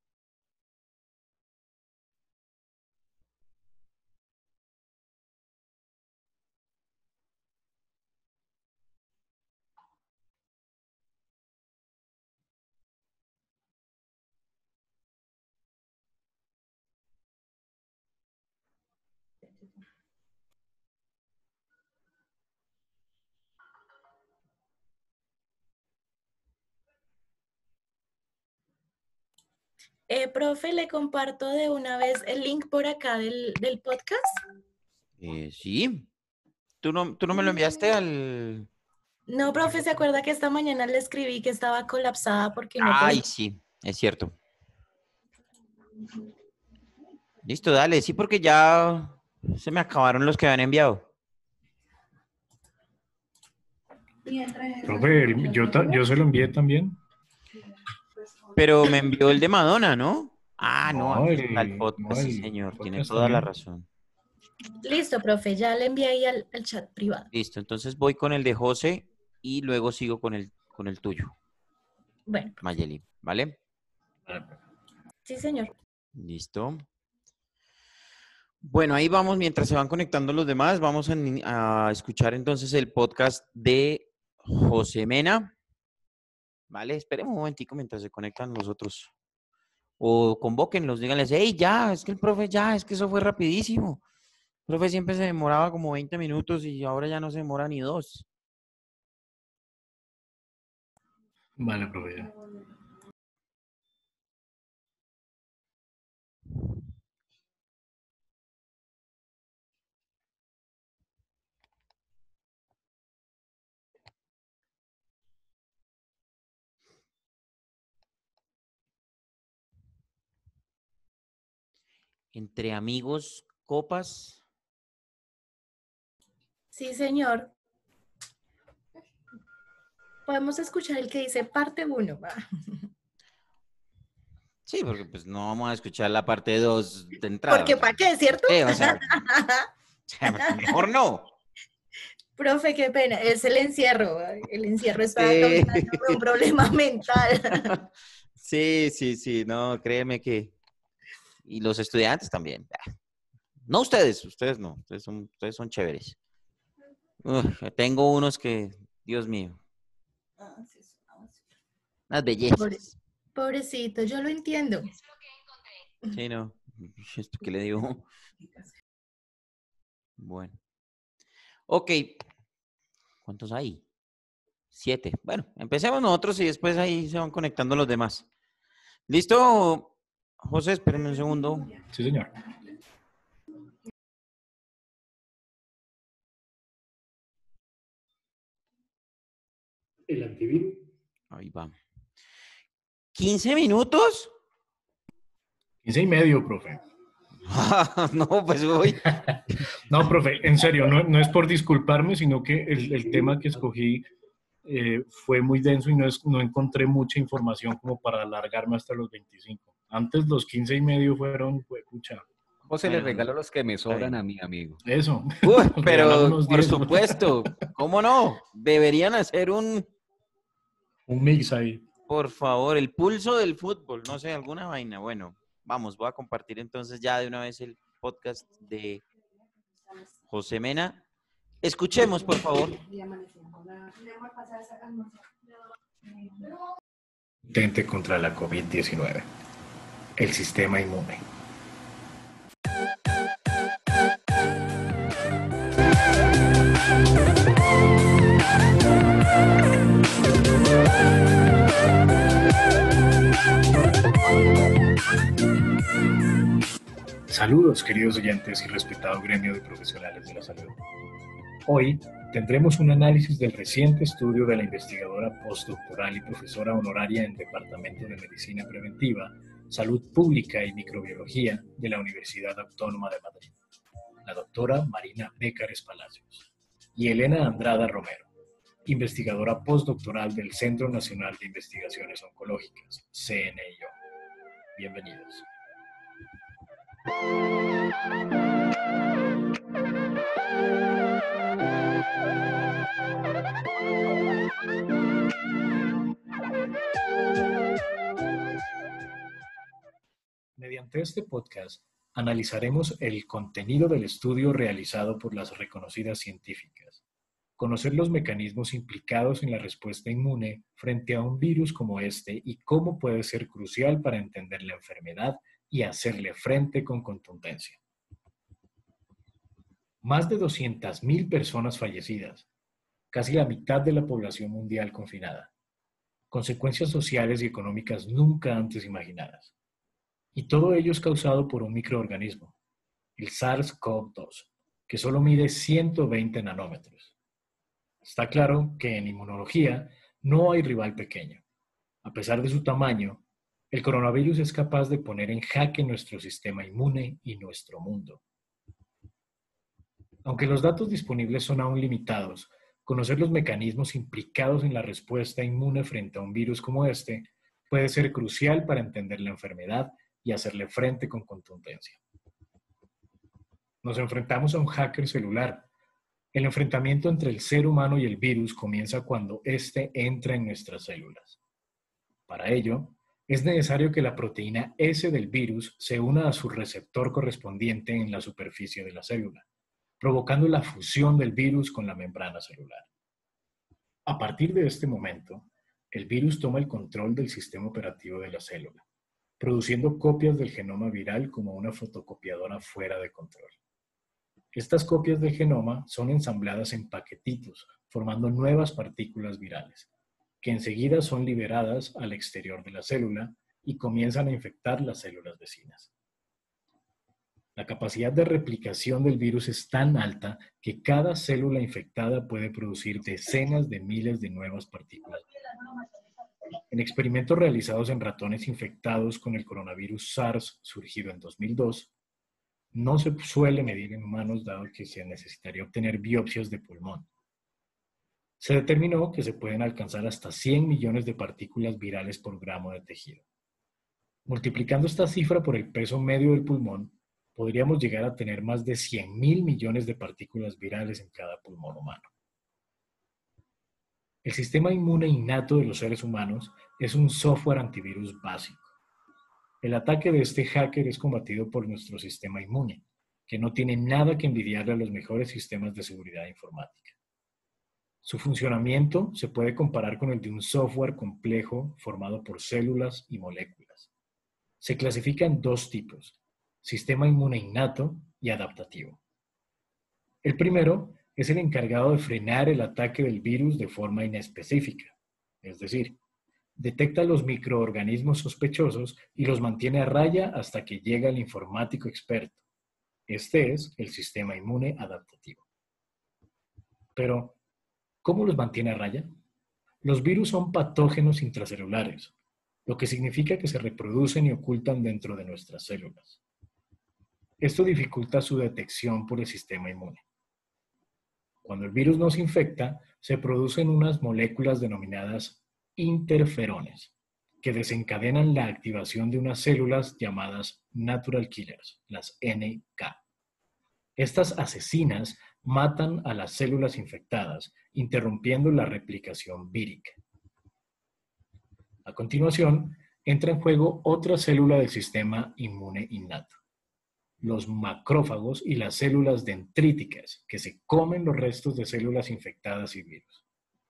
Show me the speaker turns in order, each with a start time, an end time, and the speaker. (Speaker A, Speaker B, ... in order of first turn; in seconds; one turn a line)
Speaker A: 30.1-34.2
Speaker B: 35.2-36.1
Speaker B: 36.8-38.7
Speaker A: 39.3-43.2
Speaker B: 42.8-44.3
Speaker B: 47.4-51.0
Speaker C: 54.8-57.0
Speaker B: 58.5-63.9
Speaker C: 60.8-63.5
Speaker A: 64.8-67.3
Speaker B: 67.3-71.3
Speaker A: 72.3-72.6
Speaker B: 72.6-73.6
Speaker C: 74.3-74.6
Speaker A: 75.2-75.7
Speaker B: 76.2-76.8
Speaker B: 78.6-85.5
Speaker B: 86.7-89.1
Speaker B: 90.0-94.0
Speaker B: 94.7-98.2
Speaker C: 101.6-102.3
Speaker B: 122.3-124.4
Speaker A: 126.7-127.5
Speaker A: 130.3-132.4
Speaker B: 134.7-137.9
Speaker A: 137.5-139.7
Speaker B: 138.5-139.1
Speaker B: 140.1-141.3
Speaker A: 140.2-140.8
Speaker A: 142.4-147.7
Speaker B: 145.2-146.2
Speaker B: 148.4-150.5
Speaker B: 151.4-152.8
Speaker B: 153.7-156.2
Speaker B: 157.2-159.6
Speaker B: 162.1-162.9
Speaker A: 163.3-164.9
Speaker B: 166.1-168.1
Speaker B: 170.2-170.6
Speaker B: 171.7-172.2
Speaker B: 173.2-173.8
Speaker B: 174.7-178.2
Speaker B: 179.1-181.7
Speaker C: 181.9-182.3
Speaker C: 190.1-190.8
Speaker B: 191.3-191.7
Speaker B: 193.1-194.3
Speaker C: 195.8-196.8
Speaker B: 197.4-199.1
Speaker C: 199.1-204.0
Speaker C: 204.6-212.2
Speaker D: 212.7-214.8
Speaker B: 212.8-213.3
Speaker B: 213.9-214.2
Speaker C: 214.8-217.5
Speaker B: 215.4-219.9
Speaker C: 221.1-221.8
Speaker B: 222.1-229.0
Speaker B: 230.3-231.0
Speaker B: 231.6-232.8
Speaker C: 237.4-239.3
Speaker C: 240.2-241.2
Speaker C: 257.3-260.8
Speaker C: 261.6-273.5
Speaker C: 274.2-278.3
Speaker C: 278.8-283.9
Speaker C: 284.7-285.5
Speaker C: 300.6-307.0
Speaker C: 307.6-317.8
Speaker C: 320.0-322.5
Speaker C: 323.1-325.5
Speaker C: 326.3-329.5
Speaker C: 330.3-332.5
Speaker C: 333.2-337.1
Speaker C: 338.0-341.4
Speaker C: 342.0-348.2
Speaker C: 350.2-362.0
Speaker C: 363.8-365.7
Speaker C: 366.3-371.4
Speaker C: 372.3-379.4
Speaker C: 380.0-382.9
Speaker C: 384.1-388.8
Speaker C: 389.4-393.6
Speaker C: 394.5-399.9
Speaker C: 400.4-405.9
Speaker C: 407.6-415.2
Speaker C: 416.7-421.9
Speaker C: 422.7-427.1
Speaker C: 428.4-433.2
Speaker C: 434.3-442.1
Speaker C: 444.2-448.7
Speaker C: 449.6-456.9
Speaker C: 458.0-463.9
Speaker C: 464.6-469.0
Speaker C: 470.2-476.0
Speaker C: 476.6-482.4
Speaker C: 483.1-485.4
Speaker C: 486.9-487.4
Speaker C: 488.0-489.1
Speaker C: 489.8-492.1
Speaker C: 492.6-496.2
Speaker C: 497.4-500.0
Speaker C: 501.4-513.0
Speaker C: 514.0-520.0
Speaker C: 521.8-526.3
Speaker C: 527.2-533.2